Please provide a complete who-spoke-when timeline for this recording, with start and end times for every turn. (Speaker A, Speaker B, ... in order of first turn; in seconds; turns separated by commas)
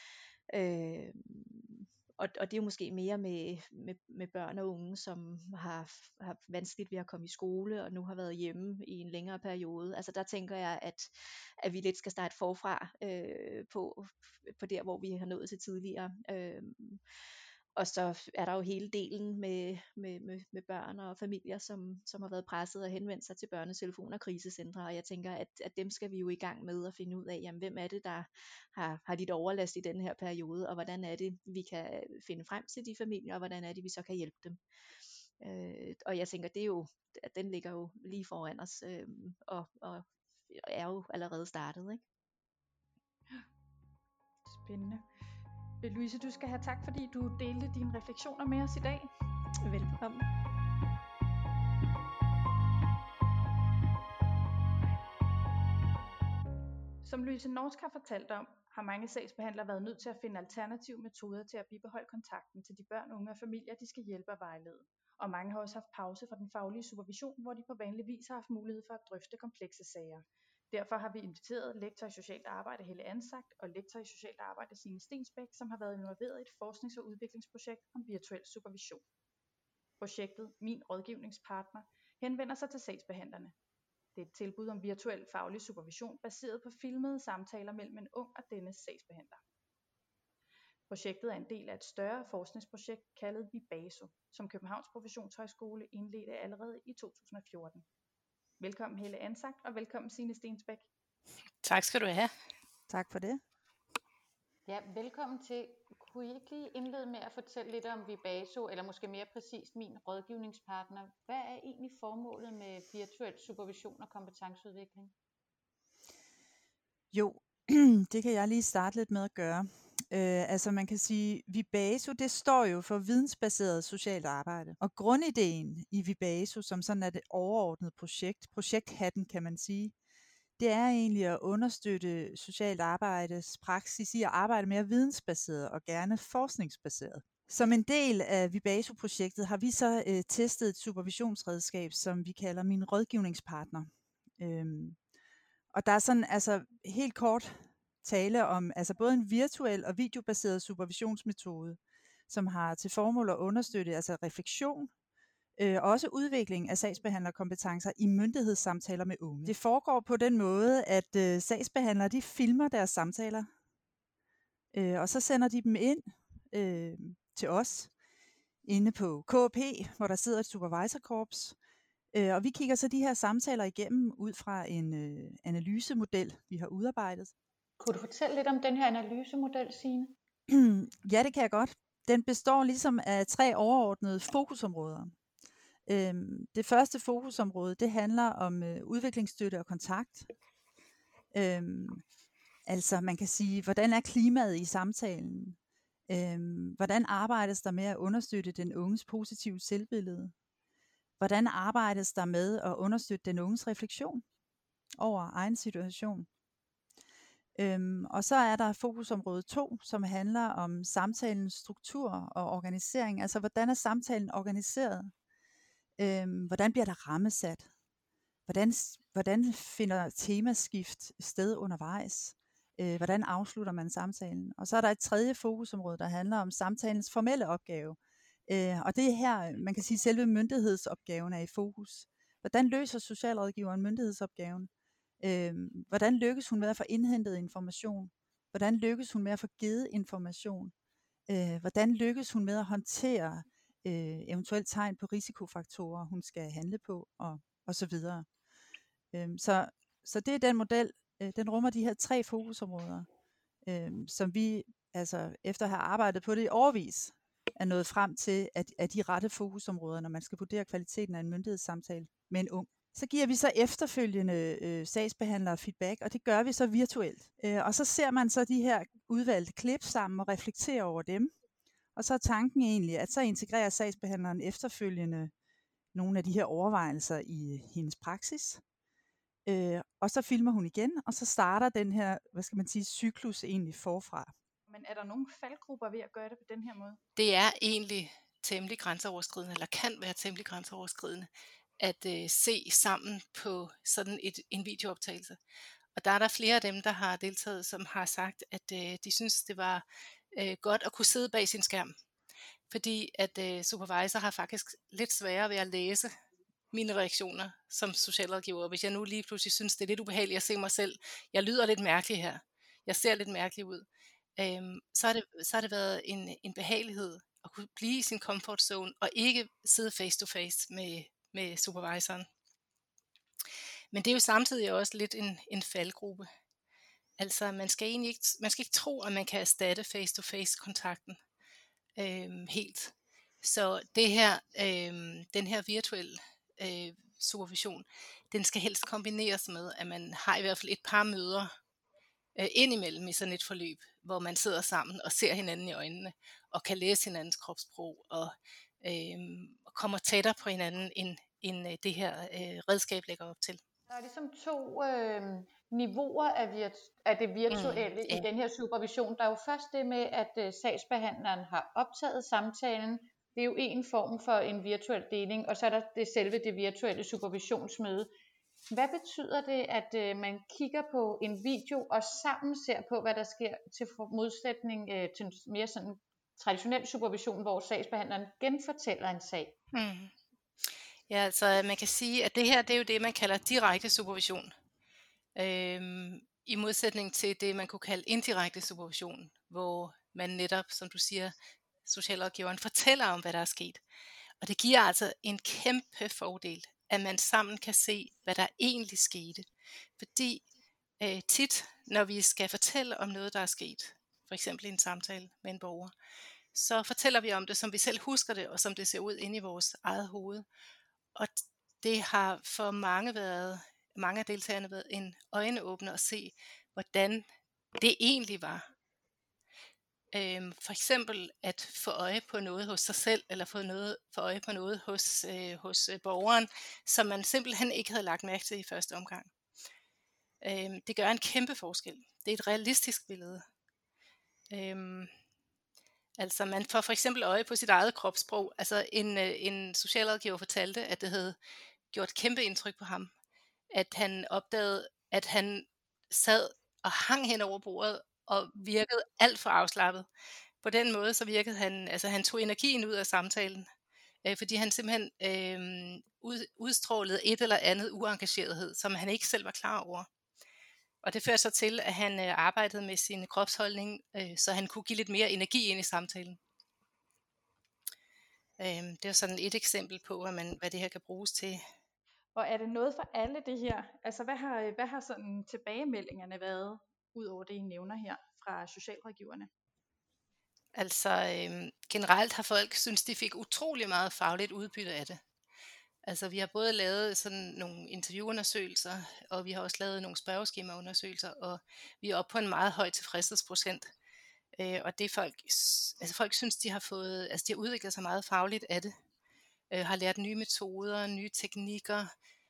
Speaker A: 0.5-17.0, Speaker A: 17.8-34.6, Speaker A: 35.4-42.0, Speaker B: 44.5-45.1, Speaker B: 45.8-49.1, Speaker A: 49.6-50.3, Speaker B: 57.0-79.0, Speaker B: 80.0-83.5, Speaker B: 84.1-89.4, Speaker B: 90.9-97.8, Speaker B: 98.6-100.9, Speaker C: 101.6-102.3, Speaker D: 102.9-103.4, Speaker E: 104.7-115.1, Speaker D: 117.1-129.9, Speaker D: 130.6-145.0, Speaker D: 145.7-154.9, Speaker D: 155.6-163.5, Speaker D: 164.7-167.9, Speaker D: 168.6-171.6, Speaker D: 172.1-177.3, Speaker E: 177.8-180.1, Speaker D: 180.5-185.1, Speaker D: 185.8-190.3, Speaker D: 191.3-192.0, Speaker D: 192.7-195.6, Speaker D: 196.1-200.3, Speaker D: 201.2-204.2, Speaker D: 205.0-206.3, Speaker D: 207.6-215.1, Speaker D: 216.0-217.7, Speaker D: 218.5-234.7, Speaker D: 235.2-240.7, Speaker D: 241.3-248.2, Speaker D: 249.1-253.1, Speaker D: 253.6-271.3, Speaker D: 271.9-275.3, Speaker D: 275.9-278.6, Speaker D: 279.4-284.3, Speaker B: 284.7-287.0, Speaker C: 287.1-295.4, Speaker C: 295.9-301.9, Speaker C: 302.7-306.1, Speaker C: 306.7-313.8, Speaker C: 314.4-322.3, Speaker C: 323.9-326.3, Speaker C: 327.2-331.2, Speaker C: 332.0-341.5, Speaker C: 342.4-353.6, Speaker E: 353.9-368.1, Speaker C: 357.5-358.3, Speaker E: 368.7-379.5, Speaker C: 379.7-380.1, Speaker C: 380.6-384.5, Speaker C: 385.4-393.8, Speaker C: 394.4-400.4, Speaker C: 401.0-405.9, Speaker C: 406.5-410.4, Speaker C: 411.1-417.2, Speaker C: 417.8-418.6, Speaker C: 420.1-429.3, Speaker C: 430.4-433.4, Speaker C: 434.5-435.1, Speaker C: 436.2-441.4, Speaker C: 441.9-443.1, Speaker C: 443.7-450.1, Speaker C: 450.6-453.7, Speaker C: 454.2-460.1, Speaker C: 461.0-466.4, Speaker C: 468.6-471.6, Speaker B: 472.3-479.5, Speaker C: 480.7-485.2, Speaker C: 486.1-493.9, Speaker C: 494.6-498.9, Speaker C: 499.7-502.1